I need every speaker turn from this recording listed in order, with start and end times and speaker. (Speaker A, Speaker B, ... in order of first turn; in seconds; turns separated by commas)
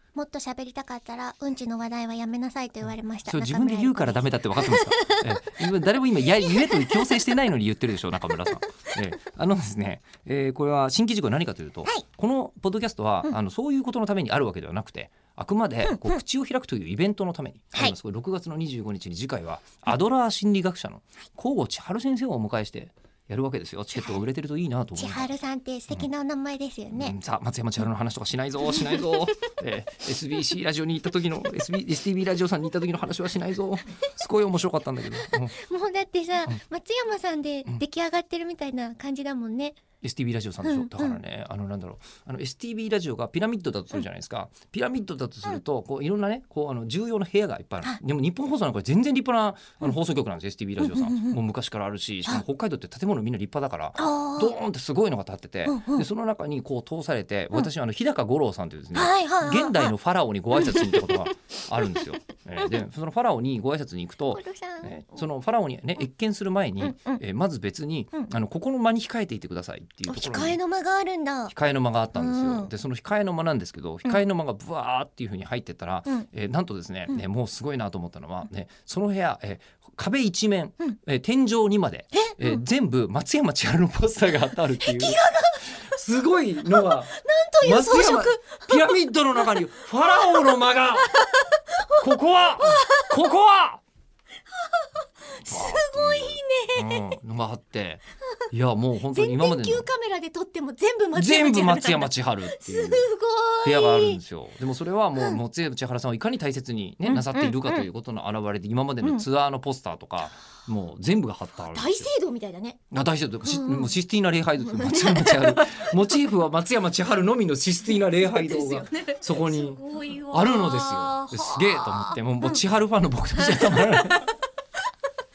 Speaker A: 0.1-5.4, Speaker B: 3.2-25.3, Speaker A: 6.4-7.2, Speaker A: 15.8-16.2, Speaker A: 24.0-24.2, Speaker A: 25.0-27.1, Speaker B: 26.9-35.5, Speaker A: 35.2-39.8, Speaker B: 40.0-70.6, Speaker A: 40.6-41.2, Speaker A: 50.8-51.4, Speaker A: 54.0-54.6, Speaker A: 55.7-56.0, Speaker A: 58.9-59.9, Speaker A: 60.5-61.1, Speaker A: 64.3-65.0, Speaker A: 66.8-67.2, Speaker A: 70.1-71.5, Speaker B: 71.5-91.2, Speaker A: 72.1-72.7, Speaker A: 82.3-82.6, Speaker A: 84.8-85.8, Speaker A: 86.7-89.0, Speaker A: 90.0-93.2, Speaker B: 92.0-93.8, Speaker A: 94.7-97.1, Speaker B: 95.5-99.9, Speaker A: 99.1-104.2, Speaker B: 101.2-103.1, Speaker B: 103.6-112.1, Speaker A: 107.0-107.9, Speaker A: 111.7-112.8, Speaker B: 112.9-119.8, Speaker A: 113.4-113.9, Speaker A: 114.6-116.0, Speaker A: 118.4-122.2, Speaker B: 120.3-124.3, Speaker A: 123.4-124.3